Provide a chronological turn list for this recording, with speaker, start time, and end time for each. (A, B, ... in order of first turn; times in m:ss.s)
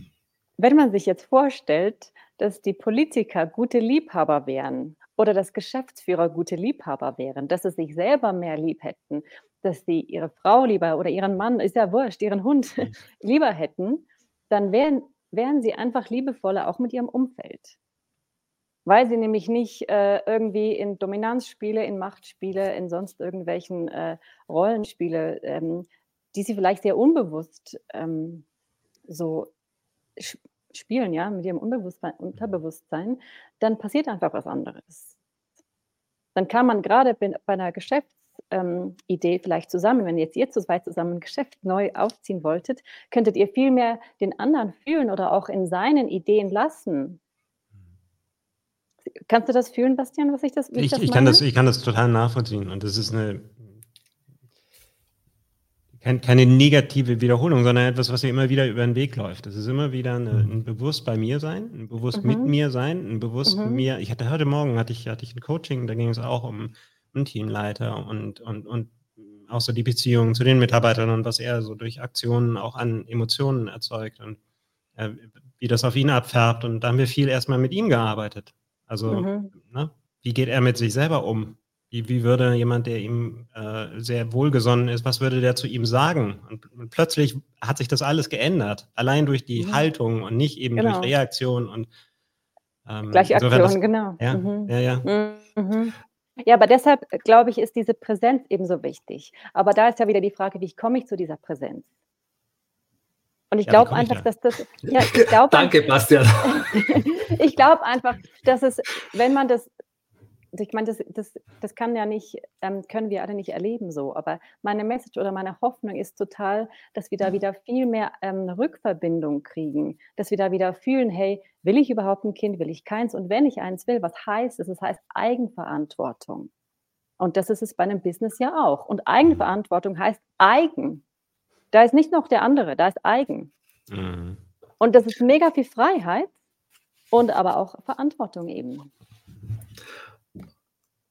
0:00.6-0:17.8 A
0:18.8-0:28.4 A
0:29.1-0:29.5 A
0:30.2-0:35.1 A
0:36.3-0:47.2 A
0:49.3-0:51.4 A
0:50.8-0:53.7 B
0:56.0-1:14.4 B
1:02.2-1:02.5 A
1:03.4-1:03.8 A
1:15.0-1:31.9 B
1:19.1-1:19.5 A
1:29.6-1:29.9 A
1:30.8-1:31.1 A
1:32.8-1:35.1 B
1:33.1-1:41.9 A
1:43.5-1:45.9 A
1:43.6-1:44.3 B
1:44.8-1:47.0 C
1:46.4-1:49.7 A
1:50.5-2:06.5 A
2:07.2-2:11.0 A
2:11.7-2:13.5 A
2:13.9-2:14.4 B
2:14.8-2:16.3 A
2:17.1-2:18.9 A